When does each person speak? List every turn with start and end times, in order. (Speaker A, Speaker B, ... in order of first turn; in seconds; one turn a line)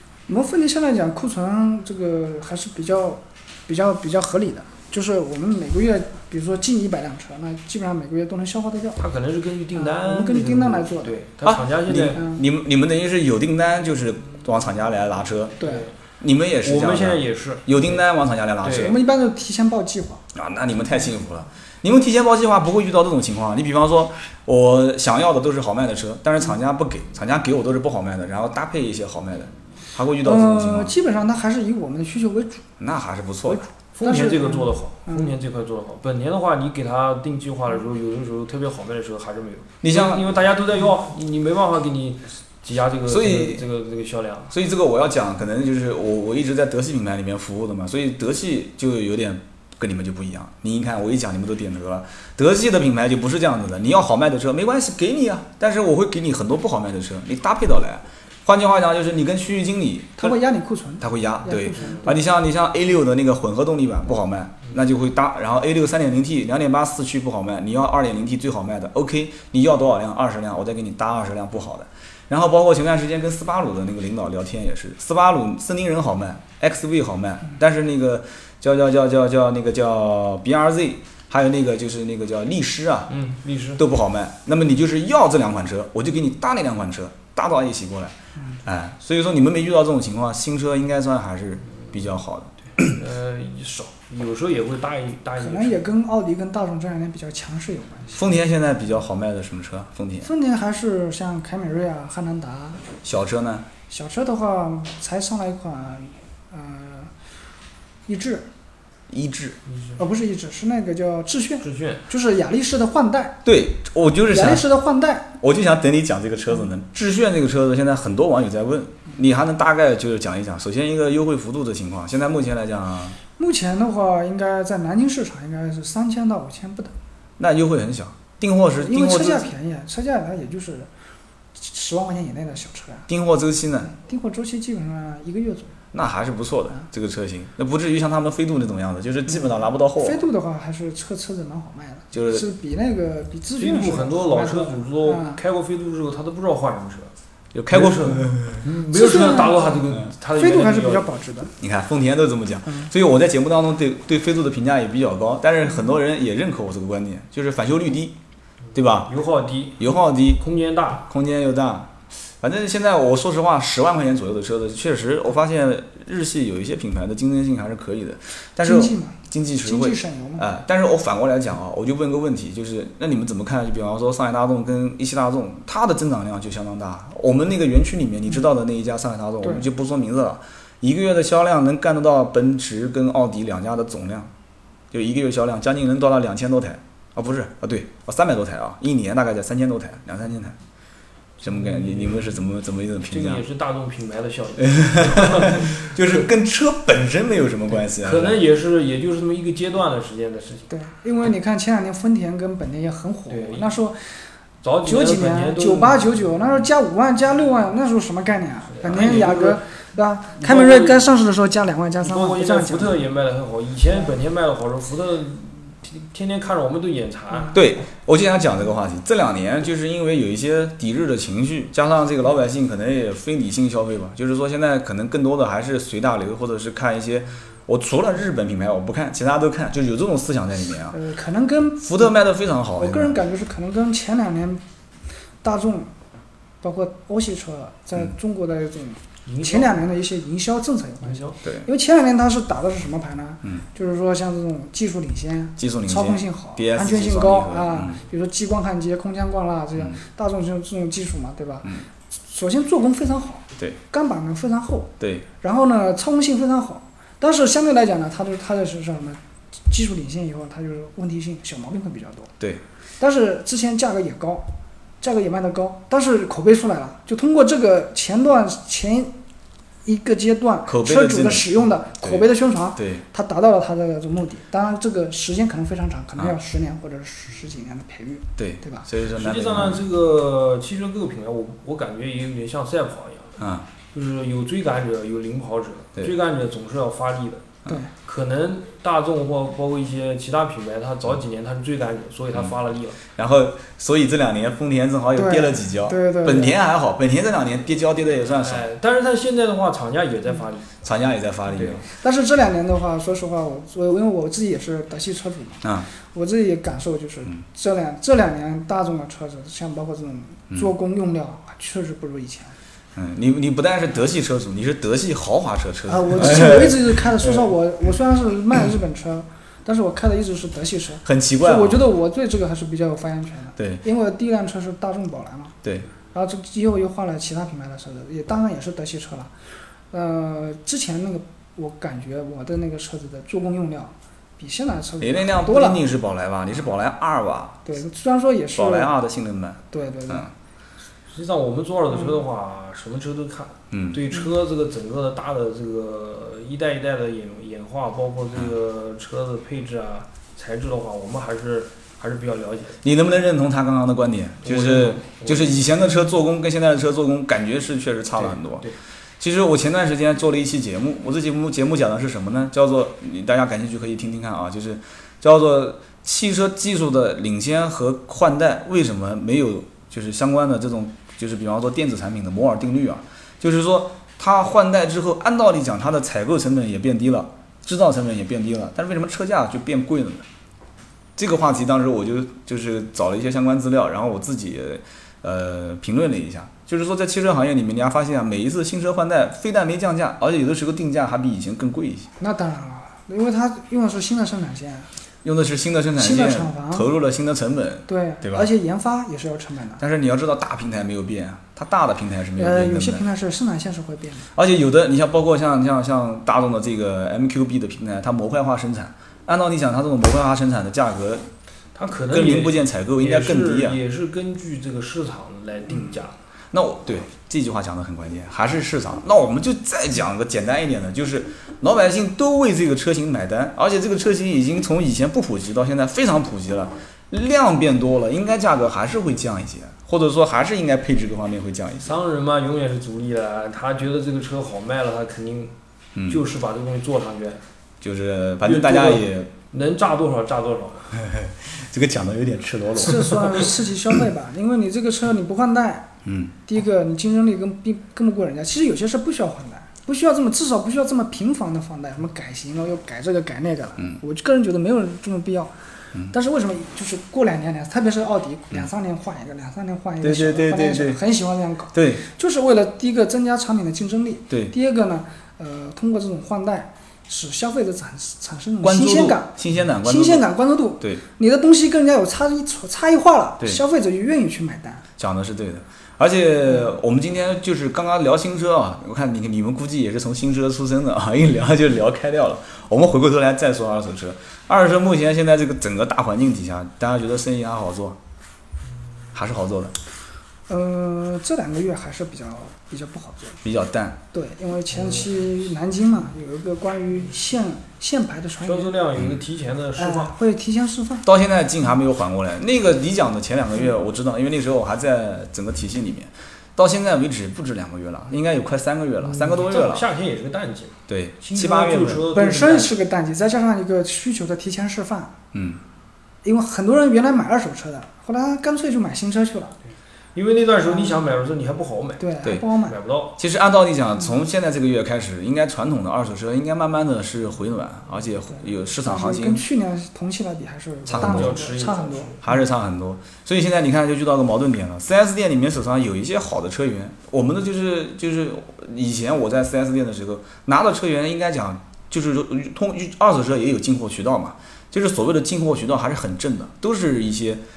Speaker A: 0.3-9.0
Speaker B: 9.0-12.2
Speaker A: 9.8-11.2
Speaker C: 11.4-15.5
Speaker A: 12.2-12.4
Speaker B: 15.6-15.9
Speaker A: 15.6-15.9
Speaker C: 16.2-18.9
Speaker B: 16.6-18.0
Speaker B: 18.6-19.0
Speaker A: 18.8-20.2
Speaker C: 20.3-30.9
Speaker A: 30.2-32.6
Speaker C: 32.8-33.6
Speaker A: 33.5-35.4
Speaker B: 34.0-44.5
Speaker C: 39.8-40.2
Speaker C: 43.1-43.6
Speaker C: 44.5-60.4
Speaker A: 60.2-62.2
Speaker C: 61.0-83.1
Speaker B: 83.1-83.8
Speaker C: 83.8-93.0
Speaker B: 92.8-95.8
Speaker A: 95.4-98.2
Speaker C: 98.2-100.3
Speaker A: 100.2-102.8
Speaker C: 103.0-103.7
Speaker A: 103.9-107.1
Speaker A: 108.1-108.5
Speaker C: 109.1-109.6
Speaker B: 109.7-110.0
Speaker A: 110.0-113.4
Speaker B: 111.6-112.0
Speaker C: 113.5-114.7
Speaker A: 114.3-115.3
Speaker C: 115.4-123.2
Speaker A: 123.4-126.9
Speaker C: 127.4-129.5
Speaker A: 128.8-130.9
Speaker A: 131.6-133.1
Speaker C: 133.1-133.9
Speaker A: 133.9-135.7
Speaker C: 135.9-140.2
Speaker A: 139.4-145.4
Speaker C: 142.1-142.5
Speaker B: 143.6-147.1
Speaker C: 147.5-148.7
Speaker B: 147.7-151.1
Speaker A: 148.9-149.8
Speaker A: 150.4-151.5
Speaker C: 151.6-158.2
Speaker C: 158.8-159.1
Speaker B: 159.1-161.1
Speaker C: 159.8-160.4
Speaker C: 161.1-184.3
Speaker A: 168.6-170.5
Speaker C: 184.9-190.6
Speaker B: 191.4-192.4
Speaker C: 191.4-193.4
Speaker B: 193.1-196.2
Speaker C: 194.6-198.4
Speaker B: 197.8-200.7
Speaker A: 200.7-204.0
Speaker B: 203.3-203.8
Speaker B: 204.6-206.2
Speaker A: 204.8-213.0
Speaker B: 208.8-209.6
Speaker B: 210.4-211.1
Speaker B: 212.0-217.5
Speaker C: 217.5-231.0
Speaker A: 230.9-232.1
Speaker C: 231.8-233.2
Speaker A: 232.8-234.6
Speaker A: 235.4-235.9
Speaker A: 236.6-262.3
Speaker B: 239.3-239.8
Speaker B: 241.1-241.4
Speaker C: 241.4-241.7
Speaker C: 245.6-248.0
Speaker C: 255.0-255.3
Speaker A: 263.0-264.5
Speaker A: 265.0-269.1
Speaker A: 269.9-278.9
Speaker C: 270.7-273.0
Speaker C: 278.4-279.8
Speaker B: 279.1-283.4
Speaker C: 283.4-283.7
Speaker B: 283.9-293.0
Speaker C: 293.1-298.7
Speaker A: 295.2-296.6
Speaker B: 298.4-300.7
Speaker C: 300.8-301.9
Speaker B: 301.5-301.9
Speaker A: 301.9-312.6
Speaker C: 313.0-317.4
Speaker A: 315.9-325.6
Speaker C: 321.1-321.8
Speaker C: 323.6-323.8
Speaker A: 326.1-329.3
Speaker A: 329.9-335.8
Speaker C: 335.0-337.6
Speaker A: 337.6-338.9
Speaker C: 338.6-340.3
Speaker A: 339.7-340.2
Speaker B: 341.1-352.8
Speaker C: 343.7-344.0
Speaker C: 352.8-358.7
Speaker B: 354.4-355.6
Speaker B: 358.1-358.8
Speaker C: 359.2-380.2
Speaker C: 381.2-392.1
Speaker A: 392.2-394.9
Speaker C: 395.2-398.5
Speaker A: 396.0-396.9
Speaker A: 397.9-399.8
Speaker C: 399.8-403.0
Speaker A: 402.4-404.3
Speaker C: 404.3-411.3
Speaker B: 411.8-416.1
Speaker C: 412.1-413.8
Speaker C: 416.5-431.9
Speaker B: 431.8-435.5
Speaker C: 436.0-436.2
Speaker B: 436.1-437.4
Speaker C: 437.8-439.3
Speaker B: 438.4-440.9
Speaker C: 441.0-443.5
Speaker A: 442.8-445.9
Speaker C: 446.1-446.3
Speaker A: 446.5-455.6
Speaker A: 456.1-474.8
Speaker C: 460.0-461.0
Speaker C: 461.7-462.0
Speaker C: 468.6-470.3
Speaker C: 475.0-488.0
Speaker C: 489.1-489.7
Speaker A: 490.5-493.4
Speaker C: 493.4-494.0
Speaker A: 494.1-498.8
Speaker B: 498.4-500.1
Speaker A: 499.8-501.1
Speaker C: 501.1-509.9
Speaker B: 509.0-512.8
Speaker C: 510.9-512.0
Speaker A: 512.1-515.1
Speaker C: 515.3-515.6
Speaker A: 516.2-519.6
Speaker B: 520.1-523.2
Speaker A: 520.7-521.0
Speaker A: 522.0-522.8
Speaker C: 523.2-529.4
Speaker A: 528.8-532.1
Speaker C: 530.9-531.3
Speaker B: 530.9-532.2
Speaker C: 532.2-547.4